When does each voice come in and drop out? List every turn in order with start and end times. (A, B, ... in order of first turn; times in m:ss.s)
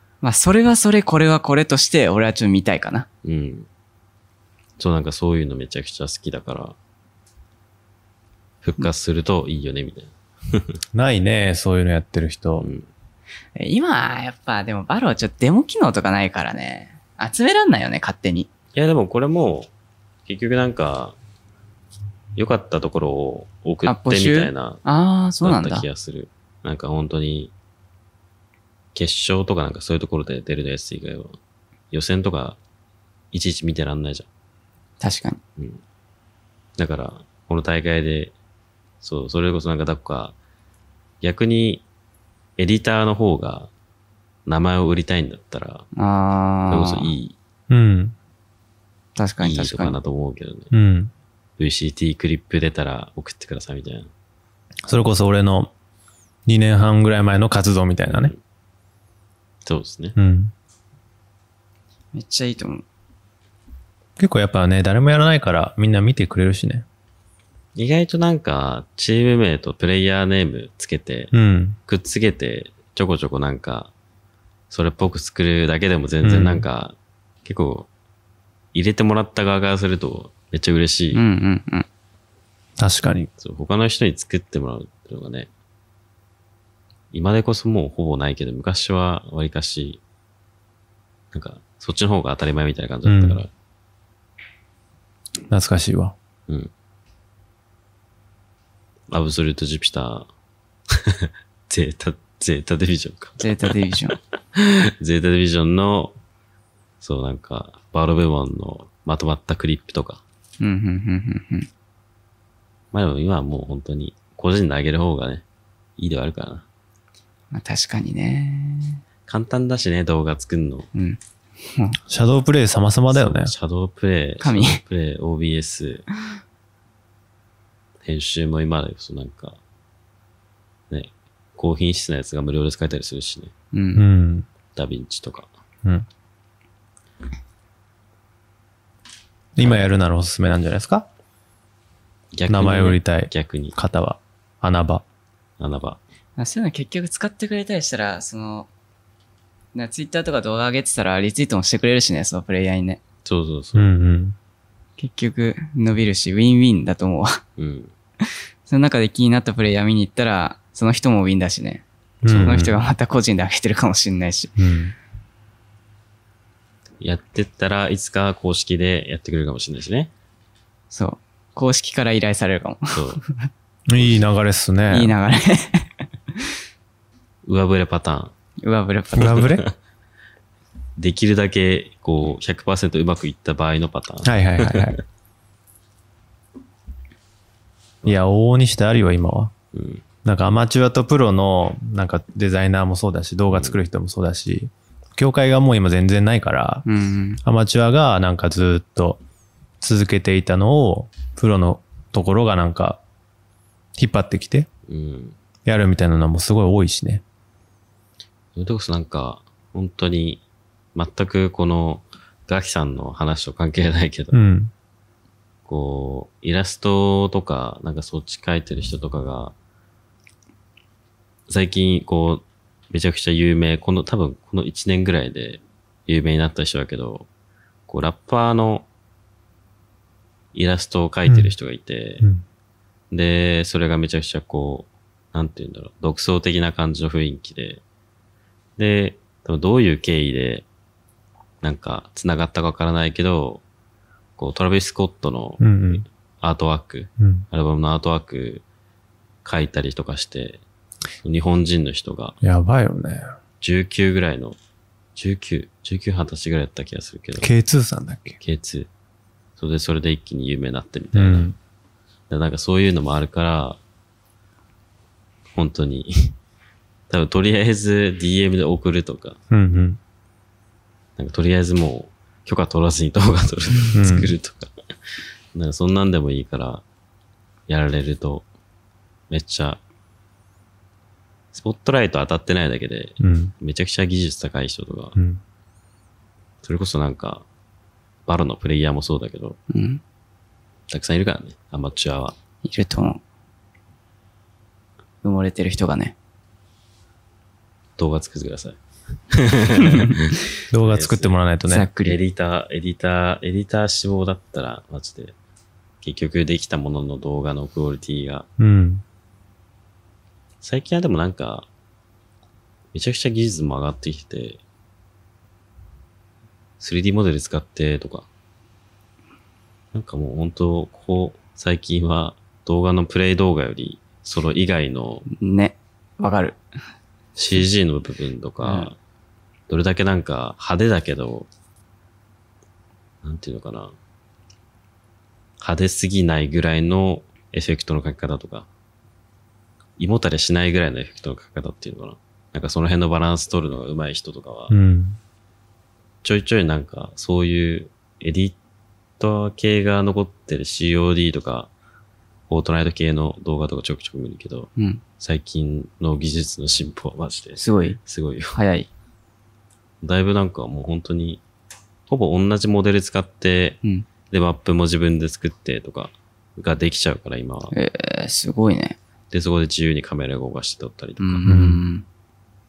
0:00.2-0:03.1 A
0:03.2-0:03.7 B
0:04.8-0:06.8 B
0:08.6-0:10.8 B
0:10.9-0:12.7 C
0:12.6-0:12.9 B
0:13.6-0:18.5 A
0:18.7-0:19.7 B
0:20.3-0:21.2 B
0:22.4-0:24.8 B
0:23.8-0:25.9 A
0:25.4-0:27.5 B
0:29.0-0:31.4 B
0:31.9-0:32.6 B
0:33.3-0:34.3 B
0:35.0-0:35.4 A
0:36.8-0:38.3 B
0:39.0-0:40.4 B
0:41.2-0:41.8 B
0:42.6-0:43.7 B
0:44.5-0:45.9 B
0:46.0-0:47.1 A
0:46.7-0:47.4 B
0:47.7-0:48.2 C
0:49.2-0:50.0 A
0:49.4-0:50.7 B
0:50.7-0:51.1 C
0:51.6-0:54.1 B
0:54.9-0:55.7 C
0:56.5-0:58.3 C
0:58.1-0:58.4 B
0:59.6-1:00.2 B
1:00.2-1:00.5 C
1:02.1-1:02.8 A
1:04.2-1:06.8 C
1:07.8-1:11.3 B
1:11.3-1:11.8 C
1:11.9-1:13.9 B
1:14.7-1:17.9 B
1:16.2-1:16.7 C
1:18.7-1:21.2 B
1:21.1-1:21.9 A
1:22.8-1:23.3 C
1:23.4-1:25.5 B
1:27.1-1:30.0 B
1:31.3-1:33.5 B
1:33.0-1:33.4 C
1:35.5-1:36.2 C
1:39.1-1:40.3 B
1:40.9-1:43.7 B
1:43.4-1:44.2 A
1:44.6-1:46.2 B
1:47.0-1:50.2 B
1:50.6-1:51.7 A
1:52.9-1:55.4 B
1:56.0-1:56.7 B
1:57.5-1:59.0 A
1:59.3-2:00.9 B
2:00.9-2:02.0 A
2:02.1-2:03.5 C
2:03.1-2:06.1 B
2:04.4-2:04.8 A
2:08.0-2:09.6 B
2:10.9-2:13.5 B
2:13.7-2:14.0 A
2:14.0-2:14.5 C
2:14.8-2:15.5 B
2:19.6-2:21.1 C
2:19.6-2:19.9 B
2:22.3-2:23.8 B
2:22.5-2:25.0 C
2:25.6-2:26.0 B
2:26.4-2:28.7 A
2:29.7-2:33.0 A
2:33.2-2:33.9 B
2:33.8-2:34.4 C
2:35.0-2:37.4 A
2:37.6-2:37.9 B
2:38.7-2:44.6 A
2:42.2-2:42.8 C
2:44.6-2:45.0 C
2:47.0-2:50.1 B
2:50.9-2:53.5 A
2:52.9-2:53.2 B
2:53.9-2:55.1 C
2:54.0-2:54.2 B
2:54.9-2:55.9 A
2:57.5-2:58.3 B
2:58.6-2:59.4 A
2:59.2-2:59.6 C
2:59.2-2:59.7 B
3:01.0-3:05.0 B
3:04.2-3:05.0 C
3:08.1-3:09.5 C
3:09.7-3:10.0 B
3:10.2-3:16.8 C
3:16.9-3:17.4 A
3:17.4-3:19.2 C
3:19.8-3:23.0 C
3:24.0-3:24.7 C
3:24.9-3:25.4 B
3:25.7-3:27.2 C
3:28.6-3:30.4 B
3:31.0-3:34.4 B
3:34.3-3:34.7 C
3:35.7-3:39.5 B
3:41.5-3:47.3 B
3:47.9-3:48.9 B
3:50.5-3:52.2 B
3:51.3-3:51.5 C
3:53.1-3:57.8 B
3:58.8-4:00.6 B
4:01.6-4:03.6 B
4:04.4-4:08.6 B
4:05.6-4:06.0 C
4:07.2-4:07.4 C
4:09.4-4:10.6 B
4:11.2-4:12.4 B
4:12.4-4:13.3 C
4:13.6-4:14.6 B
4:15.2-4:17.5 B
4:17.4-4:18.4 C
4:18.4-4:18.9 B
4:19.6-4:21.5 B
4:21.1-4:21.6 C
4:22.3-4:23.8 B
4:25.5-4:26.4 B
4:27.1-4:29.4 B
4:29.5-4:30.0 C
4:31.2-4:34.7 B
4:34.0-4:34.4 C
4:35.5-4:36.8 B
4:37.7-4:38.5 B
4:39.3-4:39.8 B
4:41.5-4:45.2 B
4:43.2-4:43.5 C
4:45.2-4:45.4 C
4:46.6-4:47.4 B
4:48.3-4:49.6 B
4:49.7-4:50.0 A
4:50.9-4:52.4 B
4:52.6-4:53.2 A
4:55.2-4:56.2 A
4:58.0-5:01.4 B
4:59.9-5:00.1 A
5:00.7-5:01.9 C
5:01.7-5:02.2 A
5:02.0-5:05.3 B
5:06.0-5:08.5 B
5:08.6-5:09.0 C
5:10.6-5:11.7 B
5:12.9-5:14.6 B
5:16.8-5:18.3 B
5:19.9-5:25.2 B
5:25.3-5:26.6 A
5:27.4-5:29.0 B
5:28.6-5:28.9 A
5:29.7-5:31.5 B
5:33.2-5:33.9 B
5:35.6-5:38.7 B
5:40.0-5:44.7 B
5:44.7-5:45.2 C
5:46.2-5:48.6 B
5:49.2-5:51.7 B
5:52.5-5:58.6 B
5:54.8-5:55.0 A
5:57.6-5:58.0 A
5:58.5-5:58.9 A
6:00.0-6:01.4 B
6:02.1-6:03.8 B
6:04.3-6:07.7 B
6:07.7-6:09.0 A
6:09.3-6:11.5 B
6:11.2-6:12.0 A
6:11.5-6:11.8 C